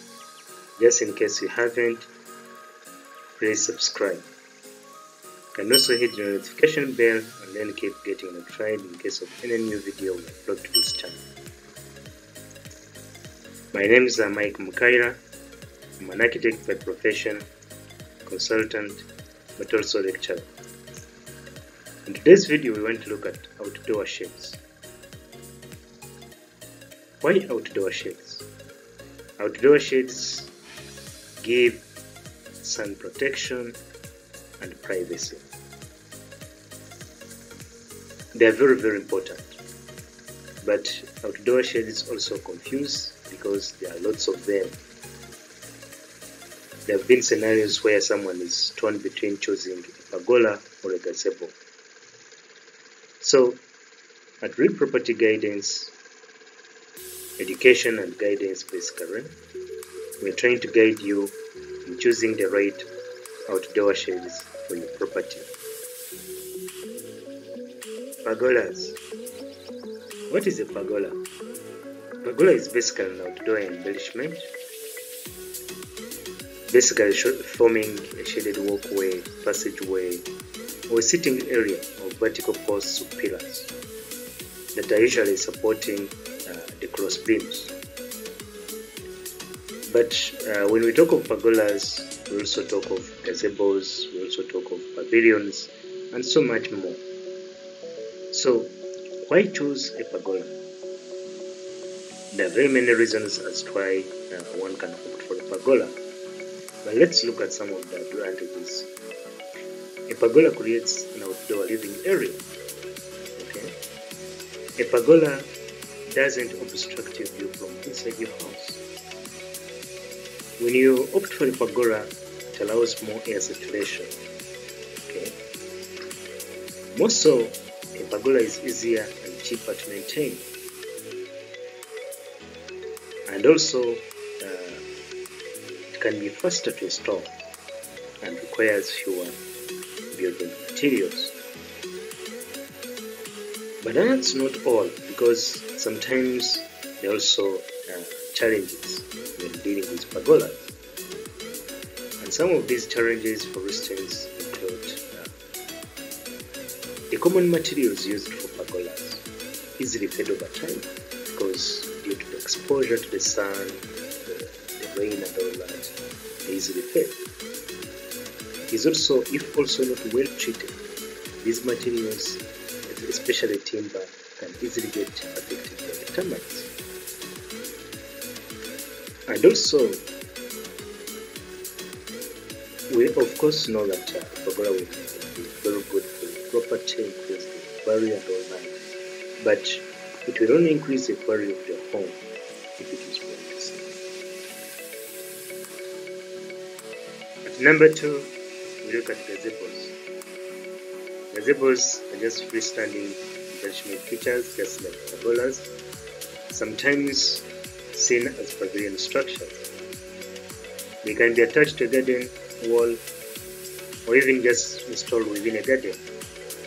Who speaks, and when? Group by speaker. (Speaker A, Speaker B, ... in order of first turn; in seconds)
Speaker A: 0.8-2.1, 3.4-4.2, 5.5-11.2, 13.7-15.2, 16.0-17.4, 18.2-19.1, 19.6-20.5, 22.1-24.6, 27.2-28.4, 29.4-30.5, 31.4-31.8, 32.6-33.8, 34.6-35.5, 38.3-39.6, 40.6-44.8, 46.9-51.5, 53.2-53.6, 54.4-55.9, 57.4-59.3, 60.2-62.9, 63.5-65.5, 68.2-69.0, 70.3-71.2, 72.2-74.5, 76.7-80.2, 80.9-83.7, 84.7-87.7, 89.9-97.0, 98.3-100.5, 102.3-106.0, 106.8-108.9, 110.1-112.4, 113.4-113.7, 114.8-115.5, 116.1-118.8, 120.6-124.1, 125.1-125.3, 126.9-130.4, 133.3-134.8, 135.9-137.3, 138.2-139.4, 140.1-141.3, 143.8-150.7, 152.2-155.3, 157.1-159.2, 159.8-167.2, 168.7-170.8, 171.4-176.7, 179.3-180.0, 182.9-188.8, 189.4-192.2, 192.8-193.9, 197.4-198.3, 198.8-199.9, 201.3-205.7, 206.5-209.6, 211.0-213.0, 214.1-216.0